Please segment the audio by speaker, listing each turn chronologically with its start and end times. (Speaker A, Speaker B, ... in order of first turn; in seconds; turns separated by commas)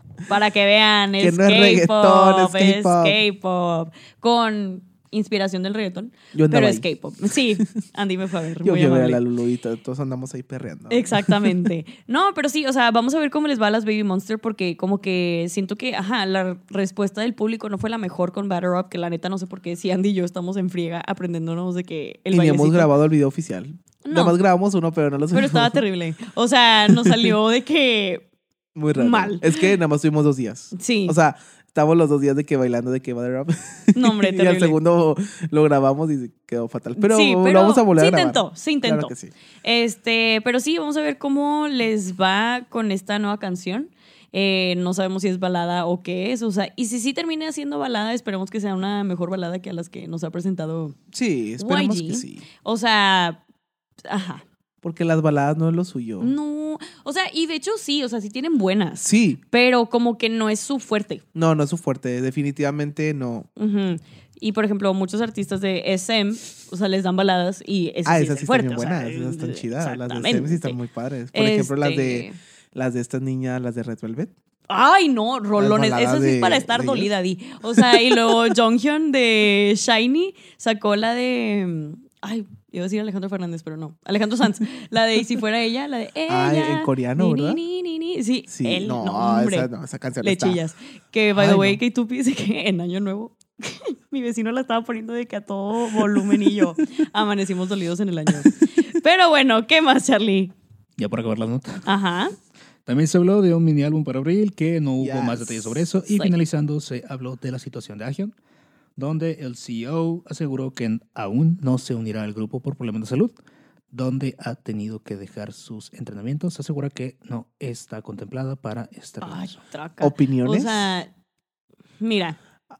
Speaker A: 0.3-9.2, Speaker B: 1.2-3.2, Speaker B: 6.3-6.8, Speaker B: 8.6-11.6, Speaker A: 10.9-22.9, Speaker B: 22.3-25.8, Speaker A: 24.0-24.4, Speaker A: 25.3-28.2, Speaker B: 26.9-27.3, Speaker B: 28.7-39.3, Speaker A: 28.9-29.6, Speaker A: 30.7-31.1, Speaker A: 33.9-34.8, Speaker A: 37.0-51.0, Speaker B: 51.1-52.4, Speaker A: 51.6-53.4, Speaker A: 54.0-54.4, Speaker B: 54.8-56.3, Speaker A: 56.2-61.2, Speaker B: 59.0-59.4, Speaker B: 61.3-63.5, Speaker A: 63.6-70.8, Speaker B: 68.0-74.3, Speaker A: 71.3-72.4, Speaker A: 74.7-89.7, Speaker B: 75.5-77.1, Speaker B: 77.8-78.4, Speaker B: 86.3-87.6, Speaker B: 88.5-90.6, Speaker A: 90.2-100.5, Speaker B: 91.3-91.8, Speaker B: 96.2-96.8, Speaker C: 101.0-101.8, Speaker A: 101.8-102.3, Speaker C: 102.8-108.3, Speaker B: 105.0-105.9, Speaker A: 106.1-106.3, Speaker C: 109.0-113.3, Speaker C: 113.9-119.6, Speaker A: 119.2-121.1, Speaker B: 120.0-120.9, Speaker A: 122.0-122.4